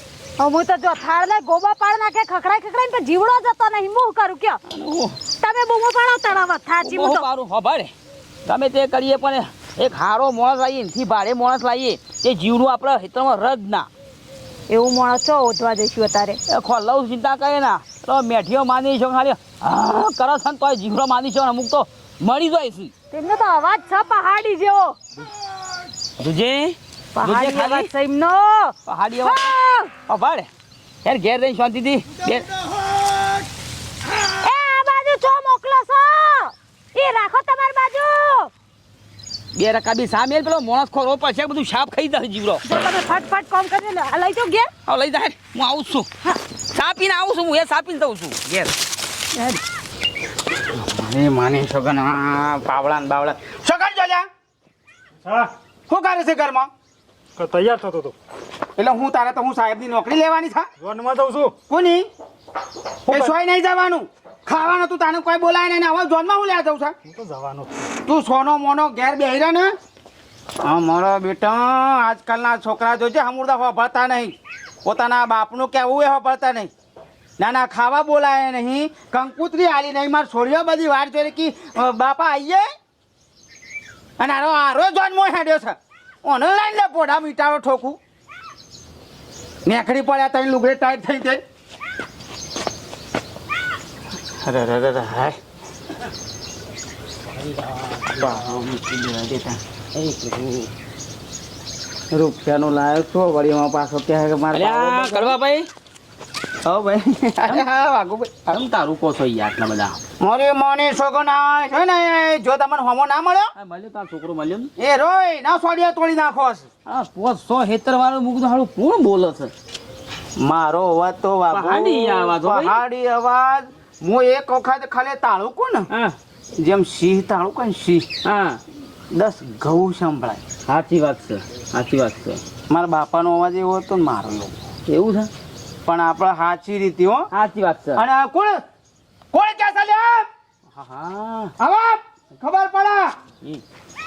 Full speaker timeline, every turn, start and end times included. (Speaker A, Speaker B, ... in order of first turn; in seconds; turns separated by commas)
Speaker A: 0.4-4.6, Speaker B: 4.7-5.2, Speaker A: 5.4-7.2, Speaker B: 6.8-7.9, Speaker B: 8.4-13.9, Speaker A: 14.7-16.4, Speaker B: 16.5-22.9, Speaker A: 23.1-25.0, Speaker B: 26.2-27.9, Speaker A: 27.1-29.9, Speaker B: 28.9-30.5, Speaker B: 31.0-32.5, Speaker C: 32.5-33.3, Speaker A: 34.3-38.5, Speaker B: 39.5-42.6, Speaker A: 42.6-44.7, Speaker B: 44.9-46.1, Speaker B: 46.7-48.8, Speaker D: 50.7-54.3, Speaker D: 55.9-56.7, Speaker C: 57.4-58.0, Speaker D: 58.8-60.7, Speaker C: 60.9-61.5, Speaker D: 61.6-62.1, Speaker D: 63.0-66.9, Speaker D: 67.9-69.7, Speaker D: 70.6-76.7, Speaker D: 77.4-82.7, Speaker D: 84.2-88.0, Speaker D: 89.6-91.4, Speaker D: 94.4-95.4, Speaker D: 98.0-100.6, Speaker D: 102.1-105.4, Speaker B: 104.5-105.7, Speaker D: 106.6-108.6, Speaker B: 108.5-110.0, Speaker D: 110.2-113.5, Speaker B: 113.5-114.7, Speaker D: 114.8-116.7, Speaker B: 116.8-119.5, Speaker D: 120.4-125.9, Speaker B: 121.5-122.8, Speaker B: 125.9-126.1, Speaker D: 126.6-128.1, Speaker B: 128.2-128.6, Speaker D: 129.1-130.4, Speaker B: 130.7-132.4, Speaker D: 132.7-134.6, Speaker B: 134.9-135.3, Speaker D: 135.8-137.3, Speaker B: 137.3-138.0, Speaker D: 137.9-138.6, Speaker D: 139.3-140.3, Speaker B: 140.7-141.5, Speaker D: 141.6-143.2